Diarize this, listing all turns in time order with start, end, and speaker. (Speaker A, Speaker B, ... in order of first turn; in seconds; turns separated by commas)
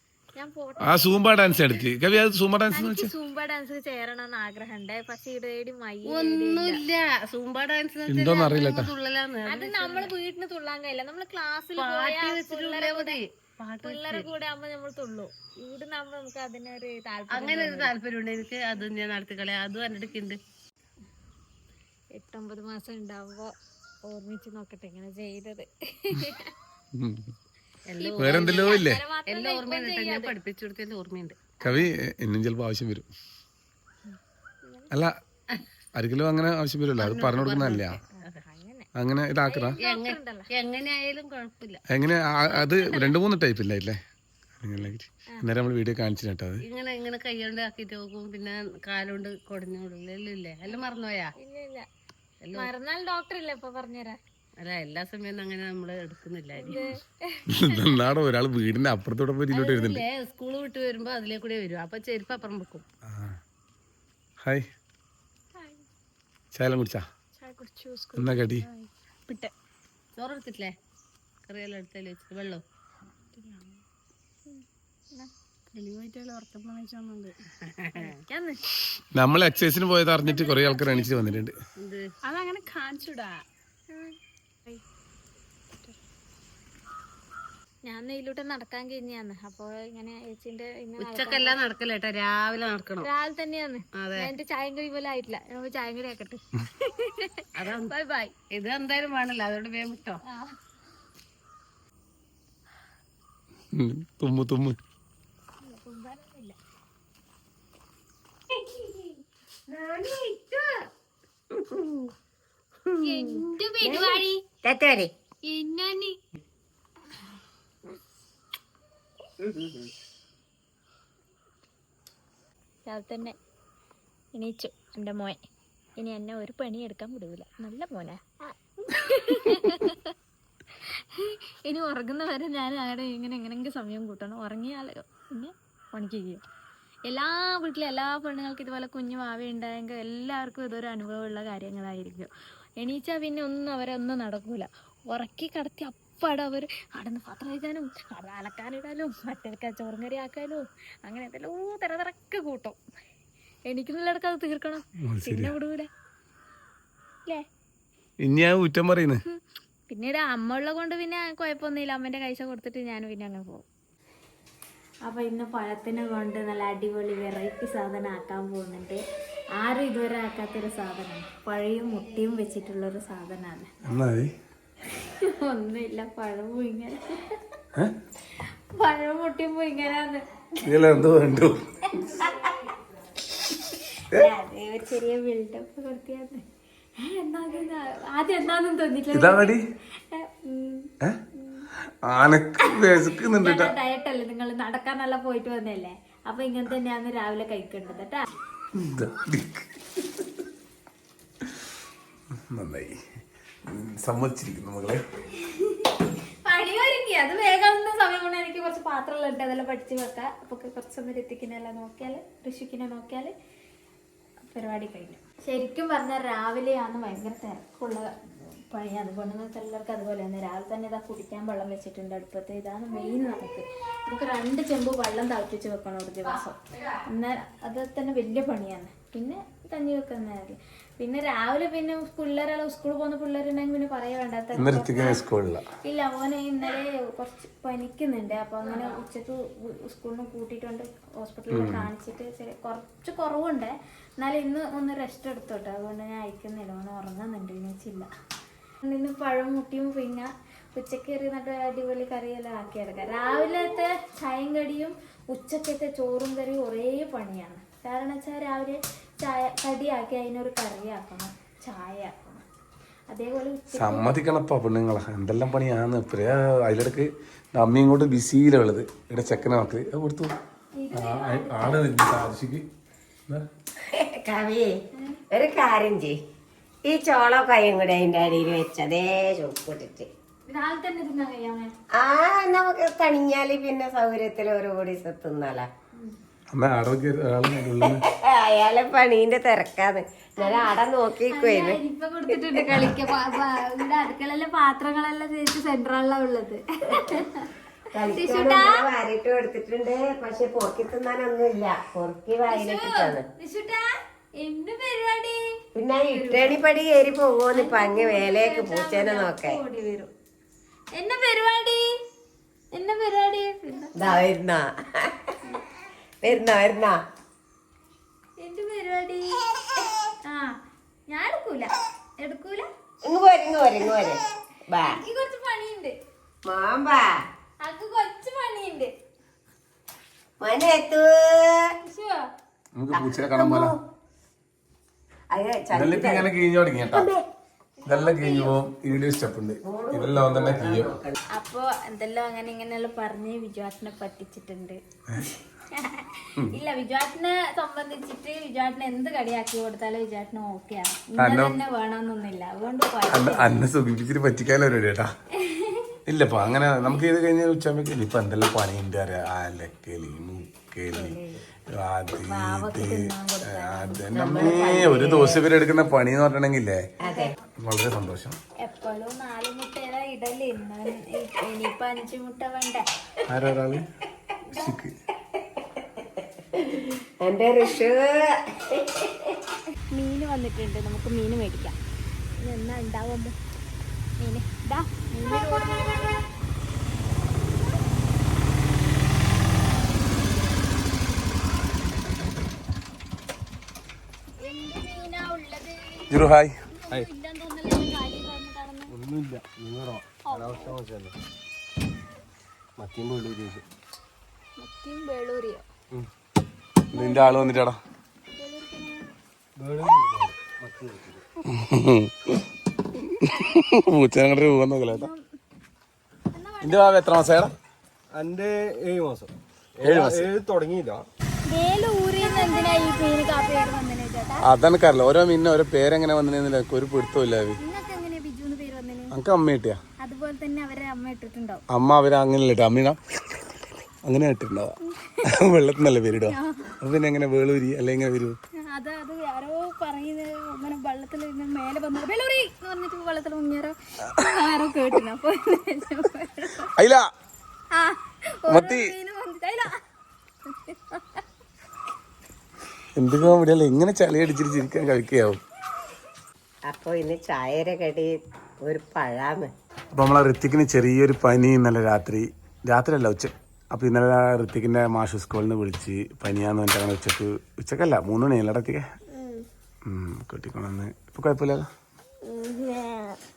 Speaker A: 0.3-1.2, Speaker B: 0.8-3.1, Speaker A: 2.7-6.8, Speaker C: 6.1-10.1, Speaker B: 8.1-8.9, Speaker A: 9.4-13.2, Speaker C: 11.8-14.3, Speaker A: 13.8-17.9, Speaker C: 17.3-20.4, Speaker A: 22.1-23.5, Speaker A: 24.1-26.5, Speaker B: 26.9-27.3, Speaker C: 27.9-31.5, Speaker A: 27.9-30.3, Speaker B: 28.2-29.0, Speaker B: 31.6-33.1, Speaker A: 31.6-31.9, Speaker A: 34.1-35.0, Speaker B: 35.9-38.0, Speaker C: 37.0-38.4, Speaker A: 38.2-38.9, Speaker B: 39.0-39.8, Speaker A: 39.4-40.5, Speaker C: 39.8-41.8, Speaker B: 41.9-44.0, Speaker A: 42.5-43.2, Speaker B: 44.6-46.6, Speaker C: 46.6-51.3, Speaker A: 51.4-51.9, Speaker C: 52.4-52.7, Speaker A: 52.5-54.2, Speaker C: 54.6-56.8, Speaker A: 56.6-58.0, Speaker B: 57.5-60.0, Speaker C: 59.5-62.8, Speaker B: 63.0-63.4, Speaker A: 65.5-65.8, Speaker B: 66.5-67.0, Speaker A: 67.3-69.5, Speaker B: 68.2-68.7, Speaker C: 70.2-70.7, Speaker C: 71.5-72.6, Speaker A: 73.3-73.8, Speaker A: 74.5-77.3, Speaker C: 77.7-78.2, Speaker A: 77.9-78.6, Speaker B: 79.1-81.5, Speaker A: 80.2-81.4, Speaker C: 81.8-82.0, Speaker A: 82.2-83.4, Speaker A: 83.9-84.8, Speaker A: 87.8-91.6, Speaker C: 91.0-93.1, Speaker A: 93.0-98.3, Speaker C: 94.0-94.3, Speaker C: 97.5-97.9, Speaker C: 98.5-100.2, Speaker B: 103.7-104.8, Speaker A: 105.6-106.5, Speaker D: 109.7-110.9, Speaker D: 111.5-112.1, Speaker D: 112.9-115.1, Speaker A: 113.0-114.4, Speaker A: 115.4-116.2, Speaker A: 122.8-123.3, Speaker A: 124.3-125.4, Speaker A: 126.0-128.2, Speaker A: 128.8-130.1, Speaker A: 131.1-136.4, Speaker A: 137.1-152.8, Speaker A: 153.7-155.9, Speaker B: 155.1-155.5, Speaker B: 158.2-159.2, Speaker A: 159.9-163.6, Speaker A: 165.1-169.0, Speaker A: 169.6-173.7, Speaker B: 173.8-174.3, Speaker A: 174.9-177.4, Speaker A: 178.7-180.2, Speaker B: 180.6-181.6, Speaker A: 182.0-182.7, Speaker A: 184.0-186.4, Speaker A: 187.0-189.6, Speaker B: 189.1-189.6, Speaker A: 190.1-191.7, Speaker B: 192.0-193.7, Speaker A: 192.9-198.3, Speaker B: 198.7-200.4, Speaker B: 201.4-201.7, Speaker B: 202.3-203.0, Speaker B: 203.6-205.0, Speaker A: 205.5-213.3, Speaker A: 214.5-226.6, Speaker A: 227.1-235.2, Speaker B: 234.5-235.6, Speaker A: 235.8-248.1, Speaker B: 241.5-241.9, Speaker A: 248.8-262.4, Speaker A: 263.1-264.1, Speaker B: 263.7-270.4, Speaker A: 270.8-271.8, Speaker B: 270.9-272.6, Speaker D: 273.9-274.7, Speaker A: 274.9-275.2, Speaker D: 275.3-276.2, Speaker D: 276.8-280.1, Speaker A: 280.4-281.7, Speaker D: 281.9-285.7, Speaker B: 286.5-288.0, Speaker D: 287.8-291.8, Speaker A: 290.4-298.9, Speaker D: 292.3-292.9, Speaker D: 297.9-303.2, Speaker A: 302.5-303.9, Speaker A: 304.4-306.6, Speaker D: 305.7-309.6, Speaker A: 307.5-310.1, Speaker A: 310.9-311.9, Speaker A: 312.7-314.2, Speaker D: 314.0-315.3, Speaker D: 316.2-317.0, Speaker A: 318.4-319.6, Speaker A: 320.2-320.6, Speaker A: 321.1-322.6, Speaker D: 323.0-325.0, Speaker A: 324.8-325.9, Speaker D: 326.4-327.2, Speaker A: 327.6-328.9, Speaker D: 330.4-331.7, Speaker A: 331.8-332.3, Speaker B: 332.7-333.8, Speaker D: 332.9-333.8, Speaker D: 335.3-336.3, Speaker B: 335.7-337.1, Speaker D: 336.9-337.2, Speaker A: 337.8-338.6, Speaker B: 337.9-340.9, Speaker D: 339.6-341.2, Speaker A: 341.3-344.8, Speaker A: 345.7-353.5, Speaker B: 351.2-351.6, Speaker B: 353.1-355.1, Speaker A: 355.3-355.9, Speaker B: 356.1-361.2, Speaker A: 360.9-361.4, Speaker B: 361.7-366.9, Speaker A: 362.3-364.4, Speaker D: 364.1-365.4, Speaker D: 367.0-367.3, Speaker A: 367.0-367.3, Speaker B: 367.6-368.4, Speaker A: 368.6-372.8, Speaker B: 373.3-373.8, Speaker B: 374.5-374.9, Speaker D: 375.6-379.3, Speaker A: 379.9-381.8, Speaker A: 382.4-383.3, Speaker A: 384.2-386.2, Speaker A: 394.4-396.1, Speaker B: 396.1-396.6, Speaker A: 396.7-398.9, Speaker E: 398.9-401.1, Speaker A: 400.2-400.8, Speaker E: 402.8-403.6, Speaker A: 404.6-405.6, Speaker B: 406.9-407.8, Speaker A: 406.9-407.6, Speaker A: 408.4-409.1, Speaker E: 409.6-411.2, Speaker B: 411.5-412.4, Speaker B: 413.0-415.1, Speaker A: 414.9-415.2, Speaker A: 416.3-417.0, Speaker B: 416.6-417.5, Speaker E: 418.1-421.1, Speaker B: 419.8-420.4, Speaker A: 421.5-424.5, Speaker B: 424.4-427.6, Speaker A: 427.6-429.1, Speaker B: 429.1-429.8, Speaker A: 430.0-431.6, Speaker B: 431.7-434.7, Speaker A: 434.8-435.3, Speaker B: 435.3-438.4, Speaker A: 436.3-436.7, Speaker A: 438.7-446.7, Speaker B: 446.7-447.0, Speaker A: 447.7-449.8, Speaker B: 448.5-448.9, Speaker A: 450.5-451.2, Speaker B: 452.9-455.4, Speaker D: 456.7-459.5, Speaker B: 459.9-468.8, Speaker A: 469.1-469.4, Speaker B: 469.8-471.6, Speaker A: 472.2-473.1